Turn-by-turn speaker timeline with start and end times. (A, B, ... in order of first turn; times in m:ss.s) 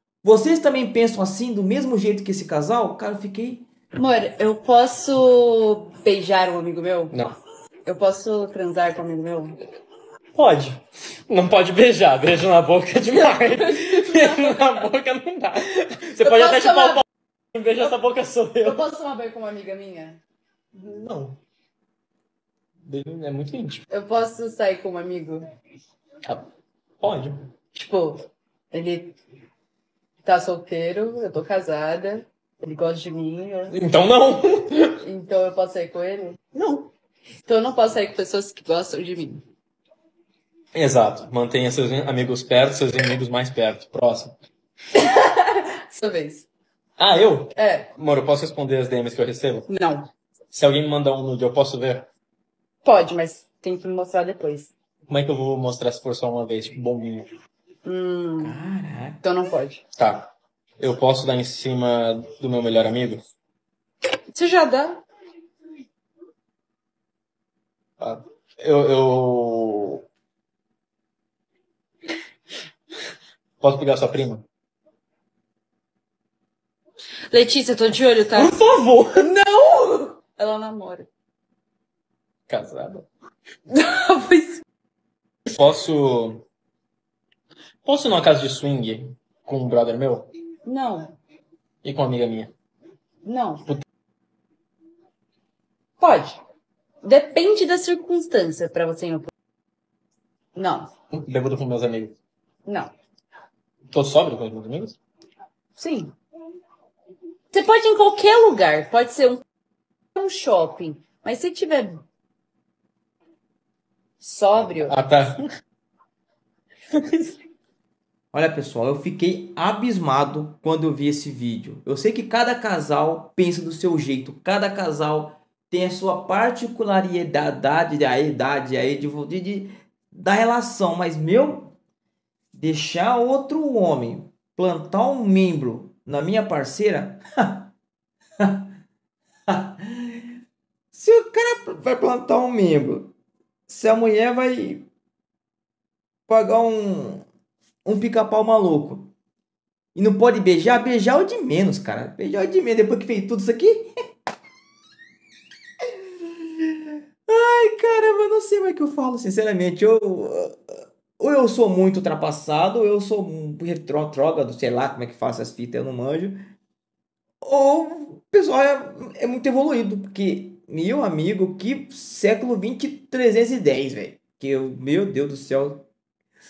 0:00.2-0:03.7 A
0:04.0-0:07.2 B
0:07.8-0:09.6 B
0:10.4-0:18.9 C
0:16.5-0:16.8 B
0:18.6-0:20.2 B
0:20.8-0:21.4 C
0:22.8-0:23.8 C
0:23.9-0:25.5 B
0:27.0-0:27.5 C
0:27.8-0:29.2 B
0:30.2-0:33.8 B
0:33.7-0:35.0 C
0:35.0-0:36.5 B
0:36.6-0:36.9 C
0:37.4-0:39.4 B
0:40.8-0:44.4 C
0:44.9-0:46.5 B
0:47.0-0:49.7 C
0:47.6-0:47.9 B
0:49.7-0:50.1 B
0:50.5-0:52.1 C
0:52.8-0:54.7 B
0:55.1-0:57.3 C
0:57.8-0:58.6 B
0:58.4-0:59.2 A
0:59.2-0:59.8 B
1:00.0-1:03.2 C
1:04.3-1:05.0 B
1:08.0-1:10.0 C
1:13.6-1:14.4 C
1:17.3-1:18.6 B
1:18.3-1:19.3 C
1:19.2-1:21.1 B
1:22.5-1:23.1 C
1:23.7-1:24.6 B
1:25.5-1:26.4 C
1:27.8-1:30.3 C
1:30.6-1:31.2 B
1:31.8-1:32.5 C
1:33.2-1:33.7 B
1:36.0-1:36.4 B
1:37.0-1:39.3 B
1:40.6-1:40.9 B
1:41.1-1:42.2 C
1:42.7-1:42.9 B
1:43.9-1:45.0 C
1:45.8-1:46.2 B
1:47.5-1:49.4 B
1:50.2-1:52.0 B
1:54.2-1:55.0 B
1:54.7-1:55.4 C
1:56.9-1:57.4 C
1:58.3-2:11.7 A
2:12.6-2:17.7 A
2:19.5-2:20.2 A
2:20.9-2:23.1 A
2:23.7-2:24.9 A
2:26.3-2:27.2 A
2:27.8-2:29.1 A
2:30.0-2:33.9 A
2:36.6-2:40.6 A
2:41.2-2:46.4 A
2:47.4-2:55.9 A